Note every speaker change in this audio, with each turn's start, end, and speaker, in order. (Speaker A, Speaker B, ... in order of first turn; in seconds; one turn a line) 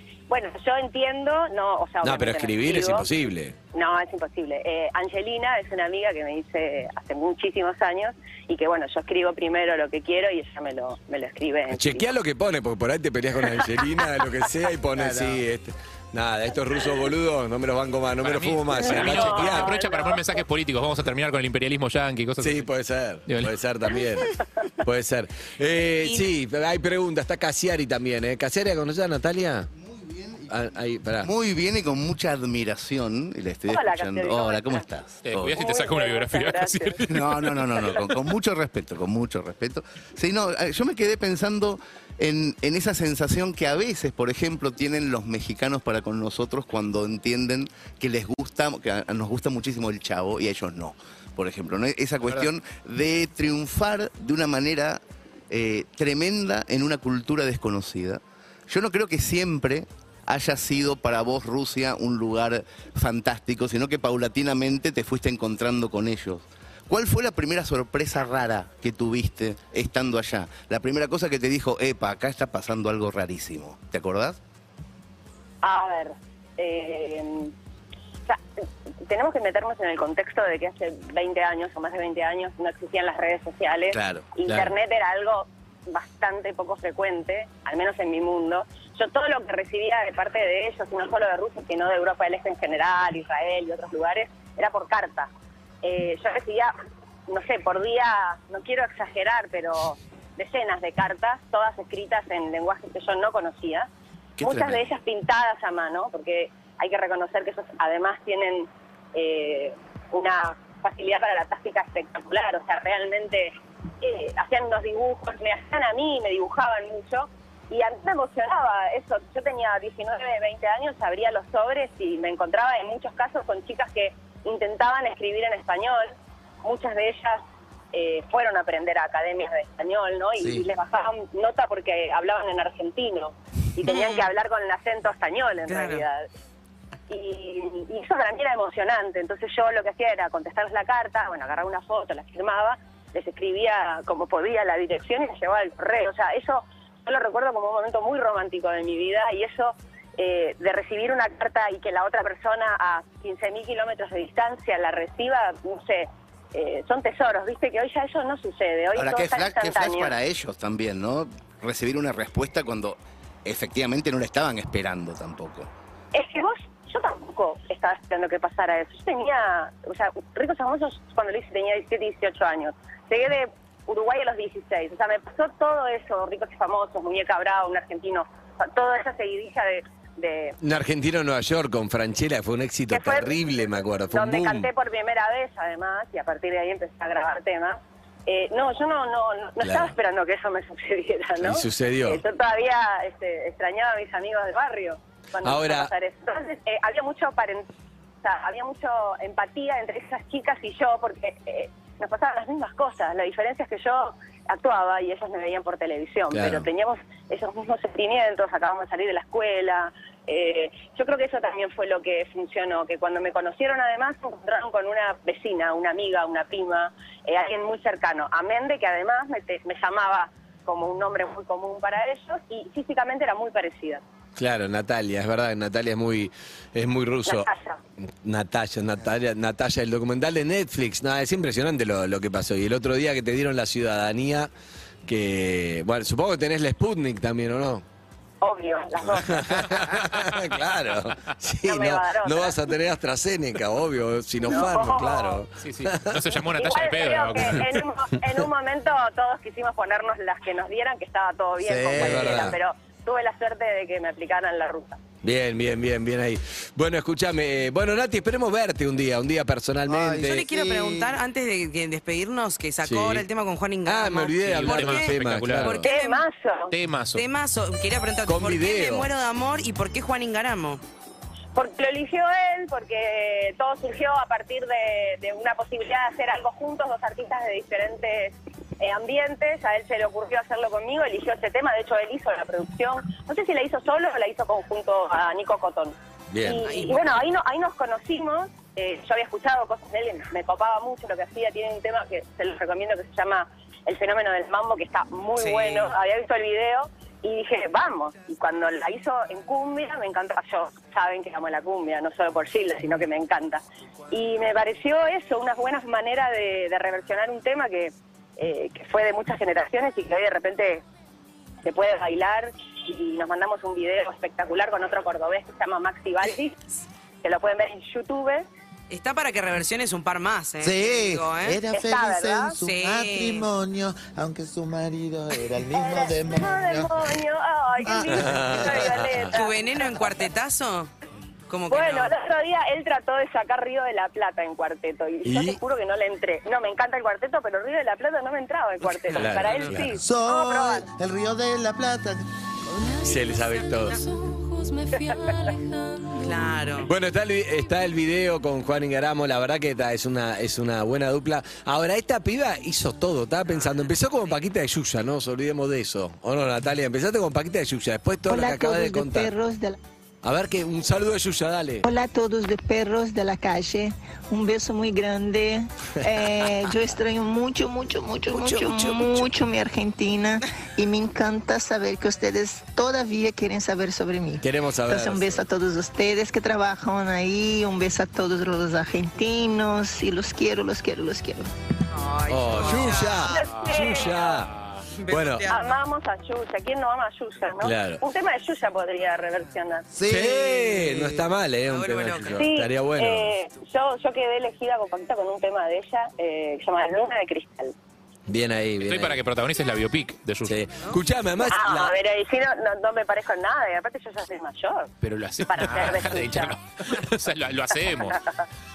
Speaker A: 0.3-3.1
Speaker B: 2.0-3.6
Speaker A: 3.7-12.1
Speaker B: 11.7-19.8
Speaker C: 15.0-15.4
Speaker D: 18.2-22.7
Speaker A: 18.8-20.4
Speaker B: 22.4-29.7
Speaker D: 23.3-23.5
Speaker B: 30.5-31.3
Speaker E: 31.2-35.6
Speaker A: 33.7-34.9
Speaker D: 35.2-37.5
Speaker A: 35.5-37.0
Speaker E: 37.1-74.4
Speaker A: 75.6-77.5
Speaker A: 79.1-95.3
Speaker E: 83.9-84.3
Speaker B: 84.5-84.7
Speaker A: 95.8-96.7
Speaker A: 97.3-103.9
Speaker B: 104.4-104.8
Speaker A: 104.4-127.4
Speaker A: 127.9-136.2
Speaker C: 130.4-130.7
Speaker F: 133.8-134.2
Speaker F: 135.7-136.1
Speaker A: 137.1-160.2
Speaker E: 159.0-165.7
Speaker A: 166.1-180.6
Speaker B: 180.6-184.7
Speaker A: 182.9-183.4
Speaker A: 184.1-197.7
Speaker B: 189.6-189.9
Speaker B: 191.4-192.2
Speaker B: 195.4-195.9
Speaker A: 198.2-224.0
Speaker B: 206.3-206.7
Speaker B: 224.4-227.5
Speaker A: 227.3-227.8
Speaker B: 228.2-234.5
Speaker B: 235.1-237.8
Speaker A: 238.4-239.5
Speaker B: 239.2-246.3
Speaker A: 241.6-242.6
Speaker A: 244.4-245.4
Speaker D: 245.6-247.7
Speaker A: 246.6-255.0
Speaker C: 251.6-252.5
Speaker B: 251.9-252.6
Speaker B: 255.2-260.4
Speaker C: 259.9-261.1
Speaker F: 260.3-266.2
Speaker B: 262.8-263.3
Speaker B: 263.9-265.9
Speaker D: 264.4-265.9
Speaker A: 265.9-266.7
Speaker D: 266.7-267.2
Speaker F: 267.1-270.8
Speaker B: 268.2-269.1
Speaker A: 271.6-310.8
Speaker B: 286.3-286.7
Speaker F: 286.6-287.2
Speaker F: 295.4-295.9
Speaker A: 311.6-316.6
Speaker A: 317.2-318.5
Speaker F: 318.9-321.6
Speaker C: 320.6-327.2
Speaker A: 321.7-322.6
Speaker F: 322.6-323.5
Speaker A: 325.7-329.6
Speaker C: 327.8-329.1
Speaker B: 328.1-329.4
Speaker F: 329.3-330.9
Speaker F: 331.5-332.1
Speaker A: 331.7-340.9
Speaker B: 335.2-335.6
Speaker F: 339.1-339.8
Speaker B: 339.2-340.0
Speaker C: 339.9-342.2
Speaker B: 342.9-344.0
Speaker A: 344.9-345.5
Speaker F: 346.1-346.9
Speaker B: 346.9-359.3
Speaker G: 358.3-359.8
Speaker B: 360.2-361.9
Speaker G: 361.8-381.5
Speaker B: 368.3-369.3
Speaker B: 374.4-375.4
Speaker F: 381.9-383.3
Speaker B: 382.3-384.5
Speaker A: 383.3-384.4
Speaker D: 383.5-384.8
Speaker F: 385.0-385.6
Speaker B: 385.1-385.5
Speaker A: 385.5-389.9
Speaker B: 387.6-388.0
Speaker C: 389.9-391.3
Speaker B: 390.1-393.3
Speaker F: 391.7-392.4
Speaker A: 392.3-397.7
Speaker B: 398.3-399.2
Speaker D: 398.8-400.6
Speaker B: 400.5-401.9
Speaker A: 401.4-404.9
Speaker D: 405.0-408.2
Speaker A: 405.4-406.6
Speaker A: 408.1-408.4